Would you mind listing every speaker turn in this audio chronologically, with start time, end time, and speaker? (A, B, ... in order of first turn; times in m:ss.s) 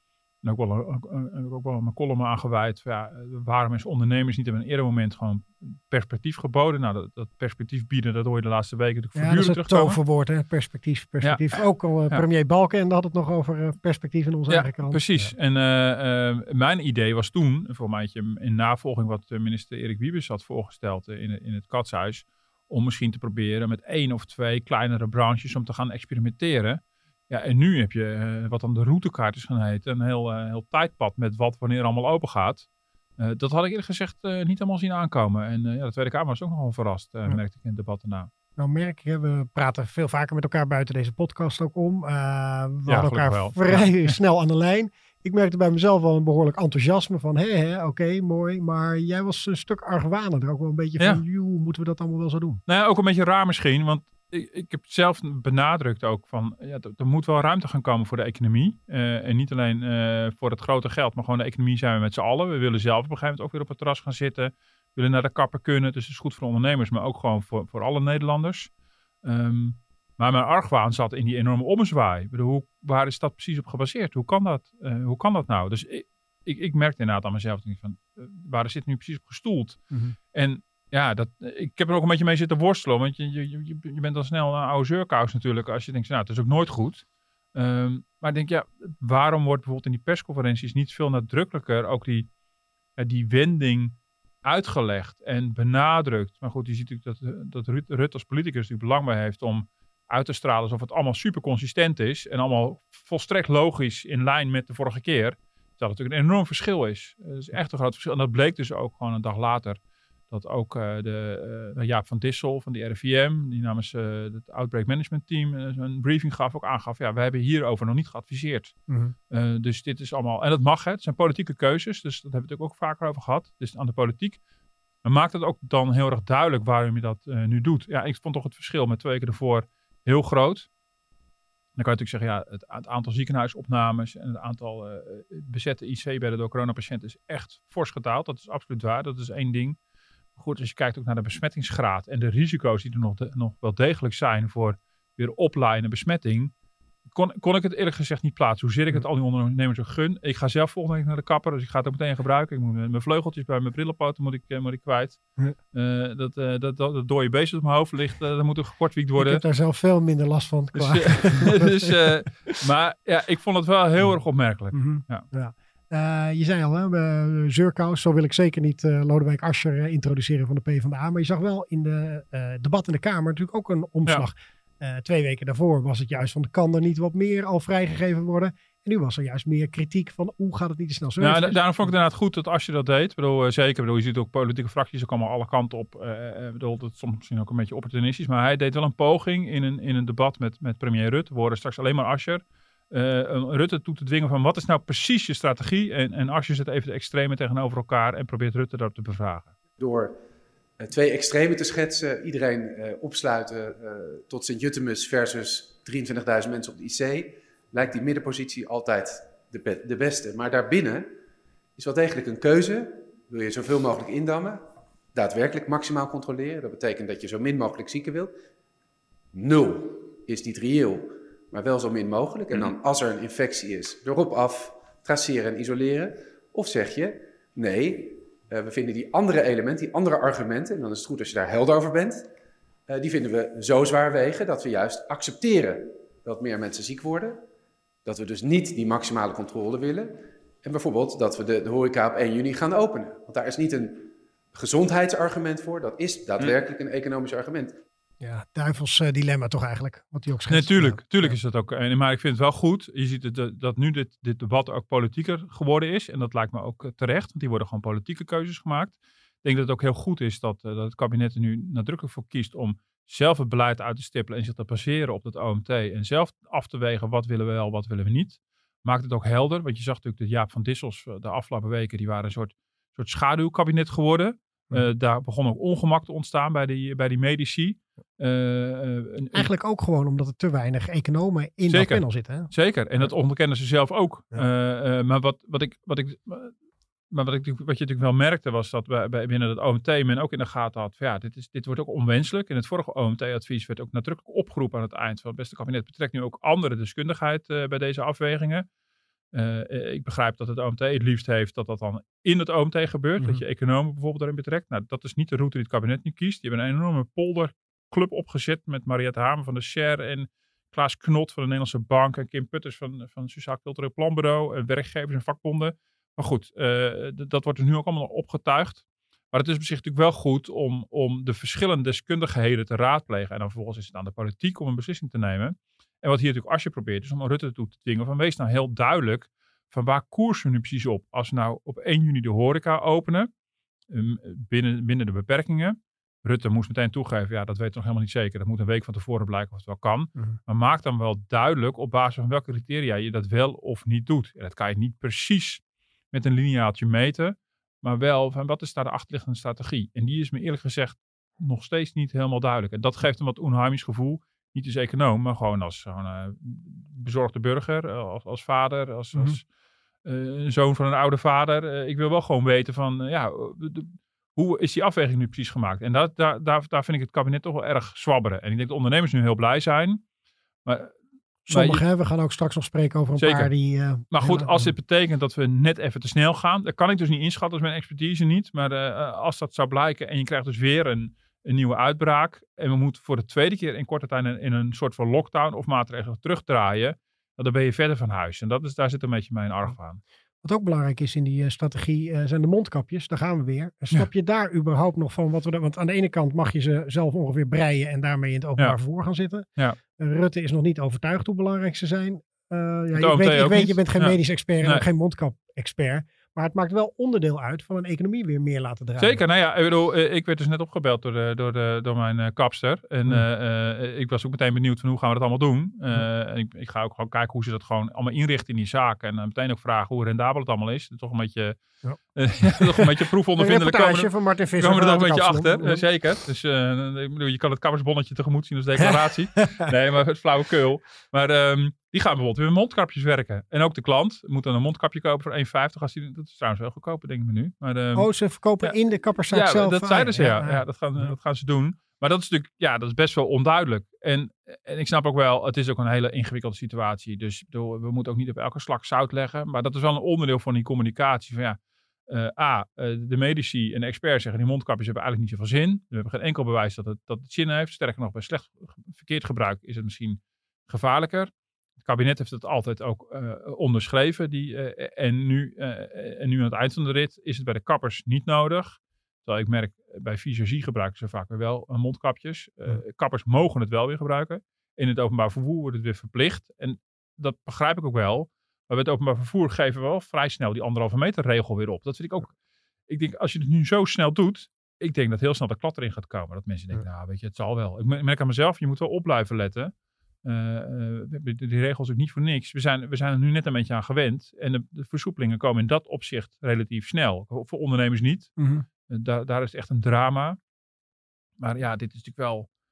0:00.4-0:10.0 A
0:09.2-0:15.3 B
0:11.2-0:12.2 A
0:14.5-0:32.7 A
0:33.2-0:38.3 A
0:38.6-0:52.6 B
0:42.9-0:44.2 A
0:52.7-1:08.7 A
1:09.2-1:19.8 A
1:19.9-1:20.2 B
1:20.3-1:32.3 A
1:33.0-1:49.8 A
1:50.3-1:58.7 A
1:58.9-1:59.1 B
1:59.3-2:04.4 A
2:05.0-2:10.7 A
2:11.8-2:19.8 A
2:20.3-2:26.5 A
2:27.1-2:35.2 A
2:35.7-2:39.4 A
2:39.2-2:42.2 B
2:40.7-2:45.2 A
2:44.7-3:01.6 B
3:01.2-3:19.5 A
3:19.8-3:20.1 C
3:20.8-3:31.1 C
3:31.8-3:38.3 C
3:39.3-3:52.3 C
3:52.9-3:57.4 C
3:58.0-4:07.7 C
4:08.2-4:11.4 B
4:10.5-4:39.5 A
4:39.3-4:42.5 B
4:41.7-4:46.5 A
4:47.1-4:58.6 A
4:59.3-5:33.3 A
5:33.9-5:59.4 A
6:00.0-6:10.0 A
6:10.6-6:10.9 A
6:11.5-6:11.8 A
6:11.5-6:14.7 B
6:13.2-6:13.5 A
6:14.1-6:30.0 A
6:30.4-6:49.2 B
6:42.9-6:44.8 A
6:49.0-7:01.6 A
7:01.8-7:05.9 B
7:02.1-7:18.1 A
7:08.8-7:09.7 B
7:17.9-7:21.1 B
7:19.3-8:02.3 A
8:02.9-8:09.7 A
8:10.2-8:18.3 A
8:18.4-8:18.6 B
8:18.9-8:20.4 A
8:21.4-8:22.5 A